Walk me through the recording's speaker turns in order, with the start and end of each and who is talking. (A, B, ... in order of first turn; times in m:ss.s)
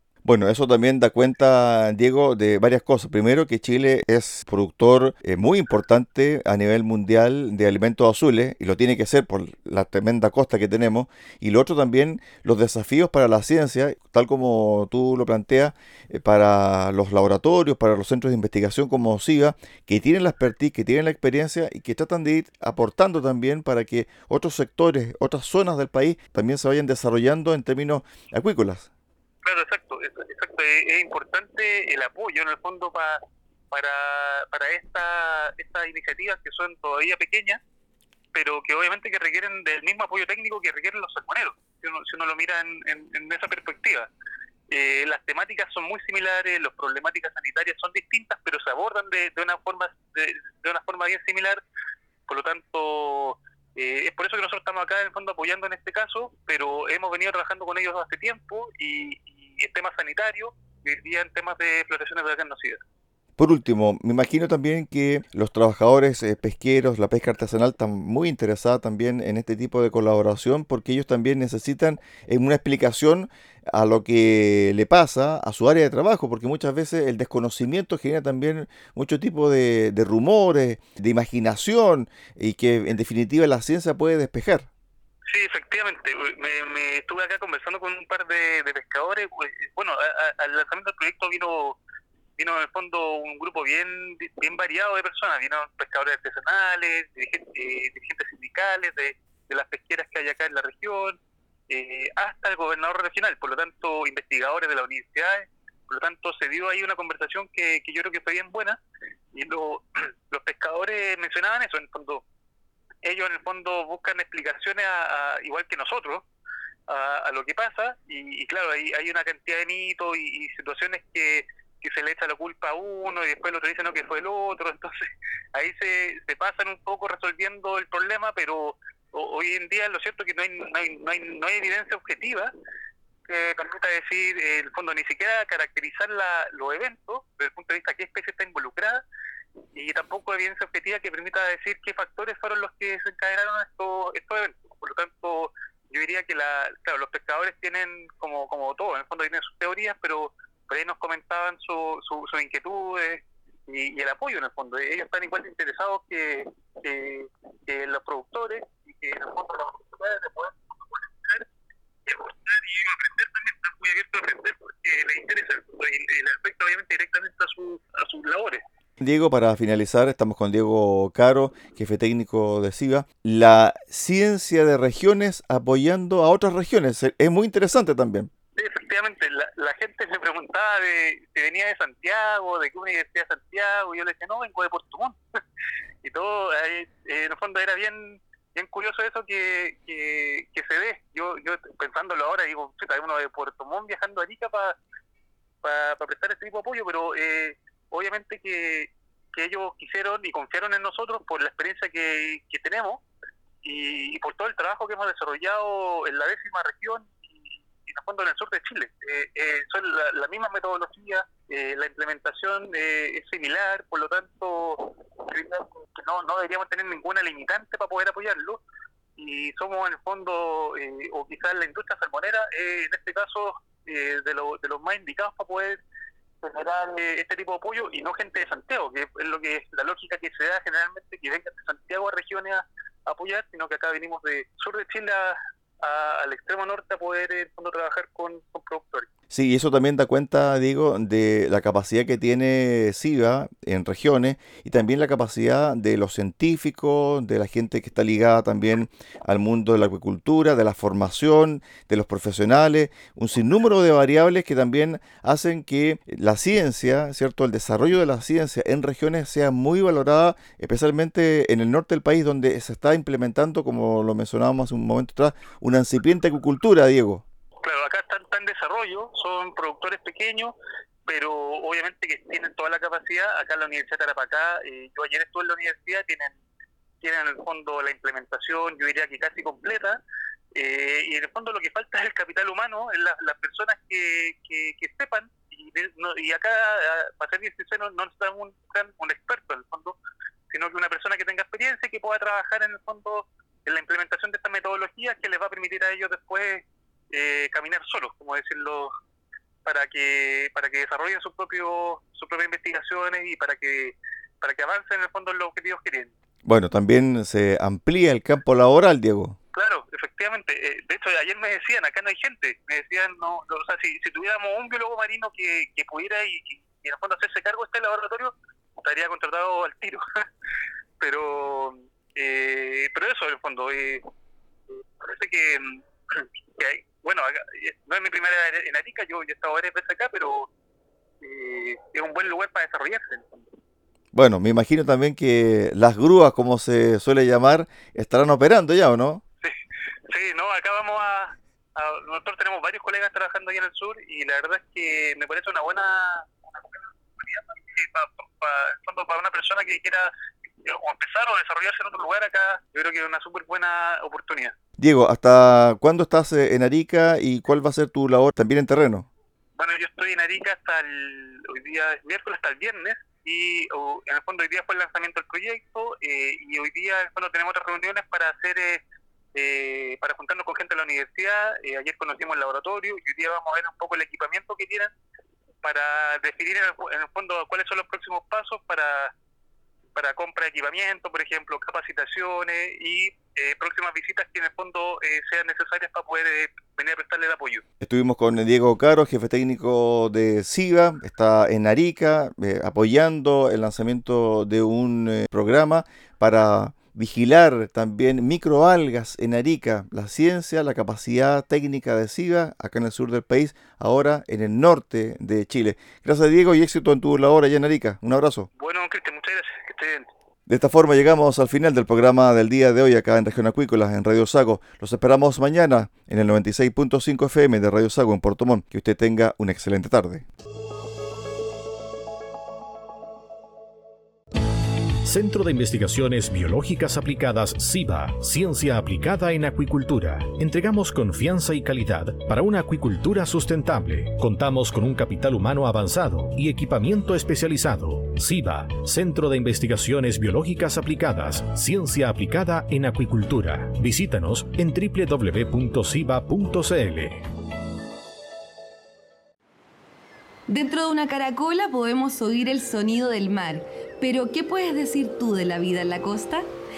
0:00.2-0:28.9 A
0:29.4-0:37.6 B
0:38.3-0:44.1 B
0:44.7-0:51.6 B
0:52.3-1:02.8 B
1:03.4-1:24.7 A
1:25.3-1:31.8 B
1:32.4-1:41.2 B
1:41.7-1:48.8 B
1:49.3-1:52.2 B
1:53.0-1:56.2 B
1:56.9-2:05.0 B
2:05.5-2:12.5 B
2:13.3-2:19.0 B
2:19.7-2:41.5 B
2:42.0-2:48.6 B
2:49.0-2:58.3 A
2:58.6-3:05.2 B
3:06.0-3:14.8 B
3:15.6-3:23.0 B
3:23.6-3:38.6 B
3:39.2-3:45.8 B
3:46.4-3:59.1 B
3:59.3-4:27.2 A
4:27.6-4:30.5 B
4:31.1-4:36.4 B
4:37.0-4:40.0 B
4:40.5-4:50.0 B
4:50.5-4:58.9 B
4:59.6-5:06.1 B
5:06.4-5:09.4 A
5:09.5-5:20.0 B
5:21.0-5:24.0 B
5:25.0-5:30.5 B
5:31.2-5:33.4 B
5:34.1-5:39.2 A
5:40.1-5:50.1 B
5:50.6-5:54.5 B
5:54.8-5:59.1 A
5:59.6-6:08.8 B
6:09.3-6:14.9 B
6:15.6-6:19.1 B
6:19.9-6:27.6 B
6:27.8-6:48.5 A
6:48.6-6:50.0 B
6:50.5-7:00.2 A
7:05.0-7:27.2 C
7:30.5-7:36.5 D